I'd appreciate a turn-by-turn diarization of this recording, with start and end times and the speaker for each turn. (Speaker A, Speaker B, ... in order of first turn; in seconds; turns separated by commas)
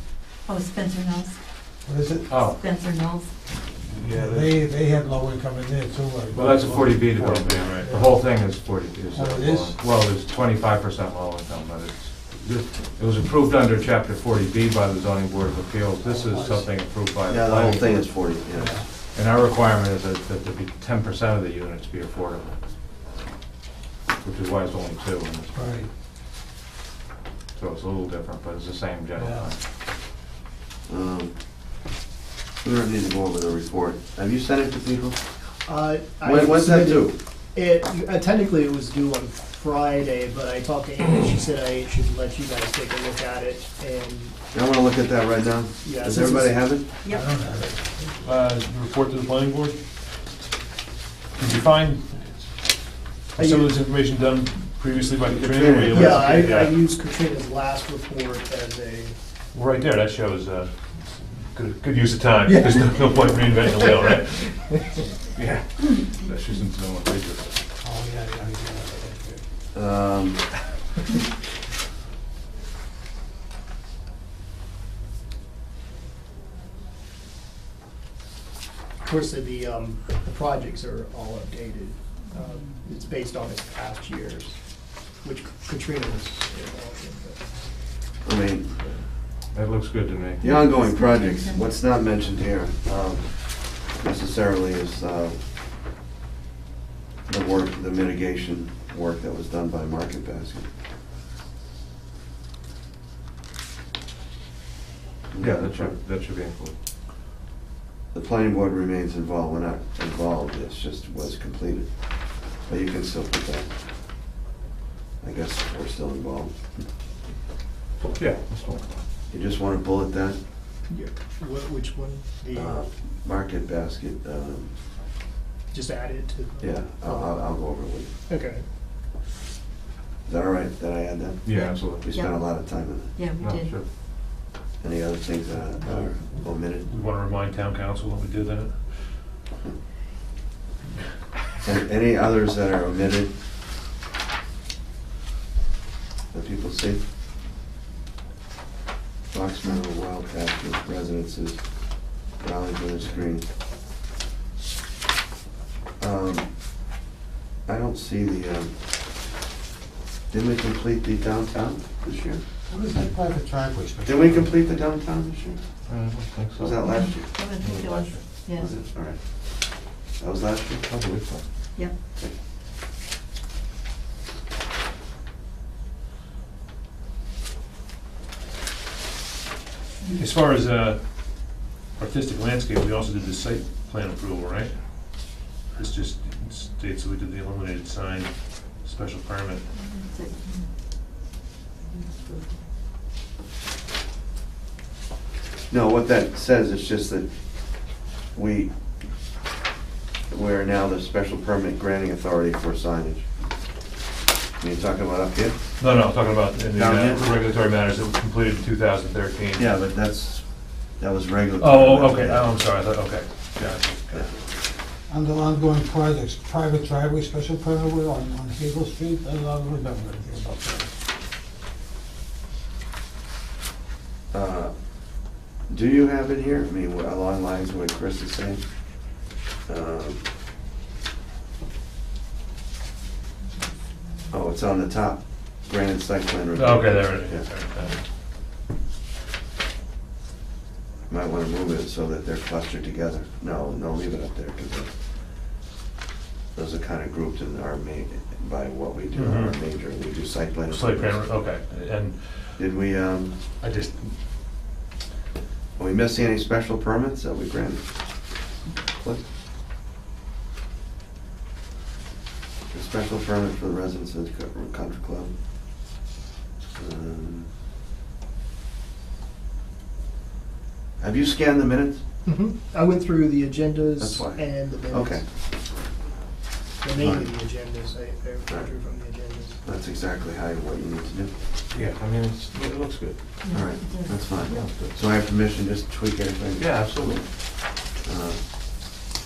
Speaker A: 0.5-1.4, Speaker B: 1.9-2.3, Speaker C: 2.3-2.6, Speaker A: 2.4-3.3, Speaker D: 3.9-4.6, Speaker B: 4.1-7.1, Speaker C: 6.3-18.1, Speaker D: 7.1-8.0, Speaker B: 7.7-8.2, Speaker B: 9.1-9.8, Speaker B: 16.0-16.7, Speaker E: 17.3-18.8, Speaker B: 18.6-18.8, Speaker C: 19.1-22.6, Speaker C: 24.2-25.8, Speaker B: 25.5-25.9, Speaker C: 27.6-29.6, Speaker B: 29.2-29.5, Speaker E: 30.9-31.3, Speaker E: 32.6-35.2, Speaker F: 35.6-44.4, Speaker E: 36.2-37.2, Speaker E: 44.5-46.9, Speaker F: 45.8-46.6, Speaker A: 47.0-47.3, Speaker B: 47.1-48.2, Speaker D: 48.2-49.8, Speaker D: 51.4-52.3, Speaker D: 53.3-56.8, Speaker F: 53.4-53.8, Speaker E: 55.2-56.3, Speaker F: 55.9-59.2, Speaker D: 59.5-65.1, Speaker F: 62.4-64.1, Speaker C: 65.3-67.5, Speaker B: 67.8-69.4, Speaker E: 69.7-70.5, Speaker F: 79.0-84.6, Speaker F: 85.2-87.4, Speaker E: 88.2-88.8, Speaker C: 89.5-90.4, Speaker A: 90.4-91.7, Speaker E: 90.4-95.4, Speaker E: 97.3-100.7, Speaker E: 105.3-106.0, Speaker C: 105.4-106.7, Speaker E: 108.1-111.9, Speaker E: 112.6-113.7, Speaker E: 115.2-116.7, Speaker C: 118.0-119.0, Speaker E: 119.3-120.4, Speaker F: 120.9-122.8, Speaker E: 122.5-124.7, Speaker F: 125.7-127.7, Speaker E: 126.6-128.1, Speaker F: 128.3-128.6, Speaker E: 130.2-133.1, Speaker C: 131.4-132.1, Speaker A: 131.5-133.8, Speaker C: 133.4-133.8, Speaker E: 134.8-136.9, Speaker D: 136.8-139.2, Speaker E: 141.6-143.3, Speaker E: 146.3-147.0, Speaker E: 149.3-151.6, Speaker E: 152.4-153.4, Speaker E: 156.0-156.5, Speaker E: 157.7-158.7, Speaker E: 160.3-162.4, Speaker B: 162.7-164.6, Speaker E: 164.1-165.6, Speaker C: 165.9-166.8, Speaker E: 166.6-167.3, Speaker A: 166.8-168.7, Speaker C: 167.6-168.2, Speaker E: 168.6-169.2, Speaker E: 170.2-170.8, Speaker C: 170.8-171.4, Speaker D: 180.1-189.6, Speaker A: 189.7-190.7, Speaker A: 191.9-192.6, Speaker E: 195.7-197.3, Speaker E: 198.3-198.7, Speaker E: 200.3-203.2, Speaker E: 204.6-205.6, Speaker D: 205.8-209.7, Speaker E: 206.7-207.3, Speaker E: 209.6-210.4, Speaker E: 211.0-212.5, Speaker D: 211.6-214.3, Speaker B: 215.1-220.9, Speaker E: 224.3-224.7, Speaker E: 225.7-228.6, Speaker E: 229.7-230.2, Speaker E: 234.3-237.4, Speaker D: 236.5-238.0, Speaker E: 241.1-244.9, Speaker E: 246.5-251.2, Speaker D: 249.1-249.6, Speaker D: 250.7-252.7, Speaker E: 252.6-253.3, Speaker D: 253.6-254.1, Speaker E: 255.8-257.8, Speaker E: 258.9-259.2, Speaker E: 262.7-265.3, Speaker E: 266.8-267.5, Speaker E: 271.0-272.0, Speaker F: 272.2-275.2, Speaker E: 274.0-275.2, Speaker F: 276.8-279.6, Speaker E: 276.9-277.3, Speaker E: 279.6-281.3, Speaker C: 281.7-283.2, Speaker A: 283.4-284.6, Speaker E: 283.5-287.2, Speaker C: 284.5-284.9, Speaker C: 286.6-287.2, Speaker E: 288.0-289.0